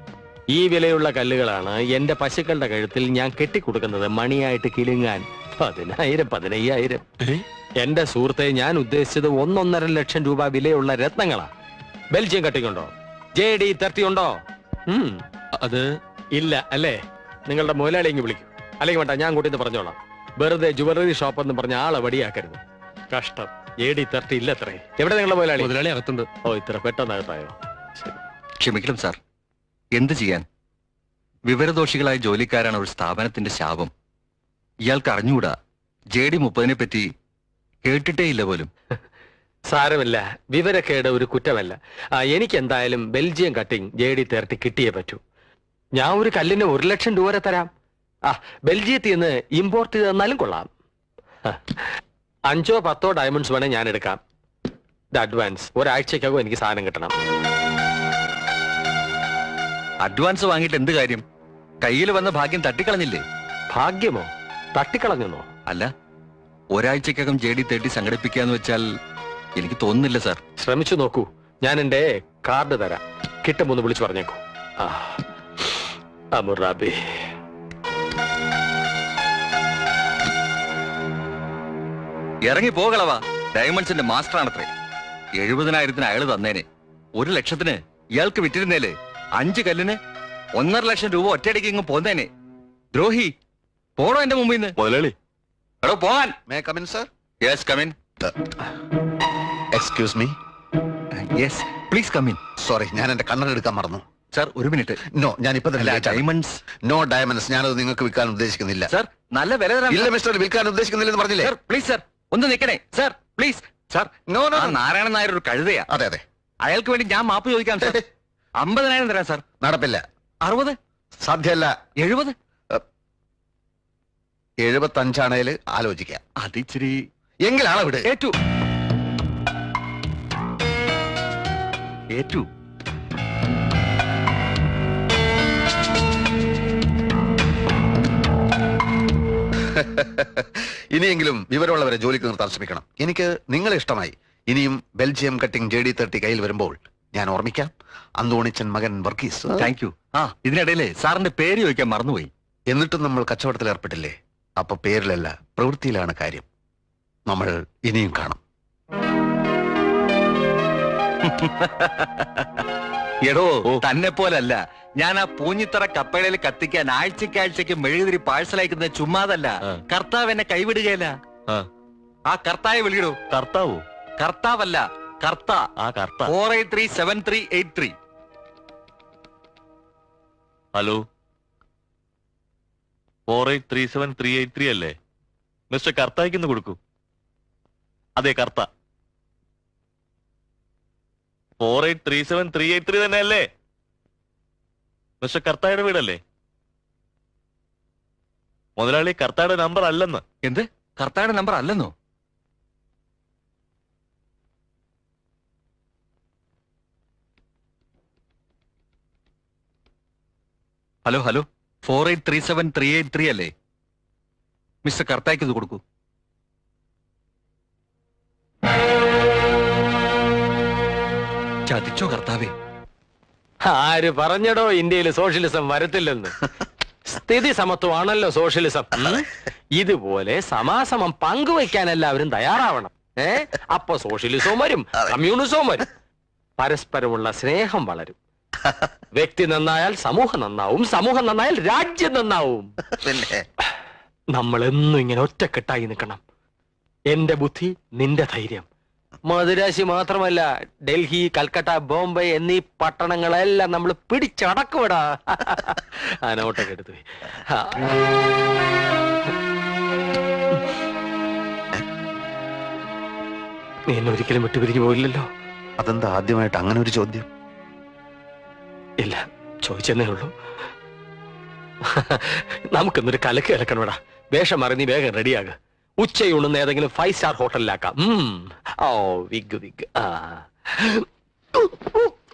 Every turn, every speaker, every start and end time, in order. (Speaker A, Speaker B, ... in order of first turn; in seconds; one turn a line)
Speaker A: 0.5-7.1
Speaker A: 7.8-11.5
Speaker A: 12.1-22.6
Speaker A: 23.1-25.7
Speaker A: 26.4-28.2
Speaker B: 28.6-29.2
Speaker B: 29.9-30.4
Speaker B: 31.5-33.9
Speaker B: 34.9-35.5
Speaker B: 36.1-37.1
Speaker B: 37.9-38.7
Speaker A: 39.7-45.2
Speaker A: 46.0-47.7
Speaker A: 48.3-50.7
Speaker A: 51.5-51.9
Speaker A: 52.5-54.2
Speaker A: 55.1-57.1
Speaker B: 60.0-61.2
Speaker B: 61.8-63.2
Speaker A: 63.7-65.5
Speaker B: 66.7-68.9
Speaker B: 69.6-70.4
Speaker A: 70.6-77.2
Speaker B: 82.5-84.7
Speaker B: 85.4-86.7
Speaker B: 87.2-90.0
Speaker B: 90.6-92.3
Speaker B: 92.9-93.3
Speaker B: 94.0-94.8
Speaker C: 94.8-95.1
Speaker B: 95.8-96.4
Speaker D: 96.5-97.1
Speaker B: 97.4-98.0
Speaker D: 99.7-100.4
Speaker B: 101.2-102.4
Speaker D: 102.6-104.0
Speaker B: 104.3-105.0
Speaker D: 105.1-106.3
Speaker B: 105.8-106.6
Speaker D: 106.8-108.9
Speaker B: 108.9-110.2
Speaker D: 109.9-111.5
Speaker B: 111.4-115.9
Speaker D: 114.3-114.8
Speaker D: 115.9-116.2
Speaker B: 116.6-118.0
Speaker B: 118.6-119.4
Speaker D: 119.6-120.0
Speaker B: 120.4-120.8
Speaker D: 121.2-121.7
Speaker B: 122.0-122.3
Speaker D: 124.6-126.2
Speaker B: 126.4-127.1
Speaker D: 127.5-128.1
Speaker B: 132.1-132.5
Speaker D: 139.7-149.7
Speaker B: 149.6-152.3
Speaker D: 152.7-156.5
Speaker D: 157.3-158.4
Speaker B: 161.2-162.6
Speaker B: 163.2-171.1
Speaker B: 172.3-173.2
Speaker C: 173.3-173.8
Speaker B: 174.2-175.7
Speaker C: 175.8-176.3
Speaker B: 176.3-177.9
Speaker C: 180.8-181.0
Speaker C: 183.3-184.9
Speaker C: 185.7-186.8
Speaker C: 188.2-188.7
Speaker C: 191.6-193.5
Speaker C: 195.2-196.2
Speaker C: 198.8-200.2
Speaker B: 200.4-201.9
Speaker B: 211.1-213.5
Speaker B: 214.8-215.8
Speaker B: 221.7-222.5
Speaker A: 223.7-226.4
Speaker A: 227.1-235.9
Speaker A: 236.6-238.2
Speaker A: 239.2-242.7
Speaker D: 243.0-243.4
Speaker A: 244.3-246.2
Speaker A: 247.1-248.7
Speaker A: 249.3-258.0
Speaker A: 263.9-265.3
Speaker D: 265.8-267.3
Speaker A: 269.0-270.3
Speaker A: 271.9-281.0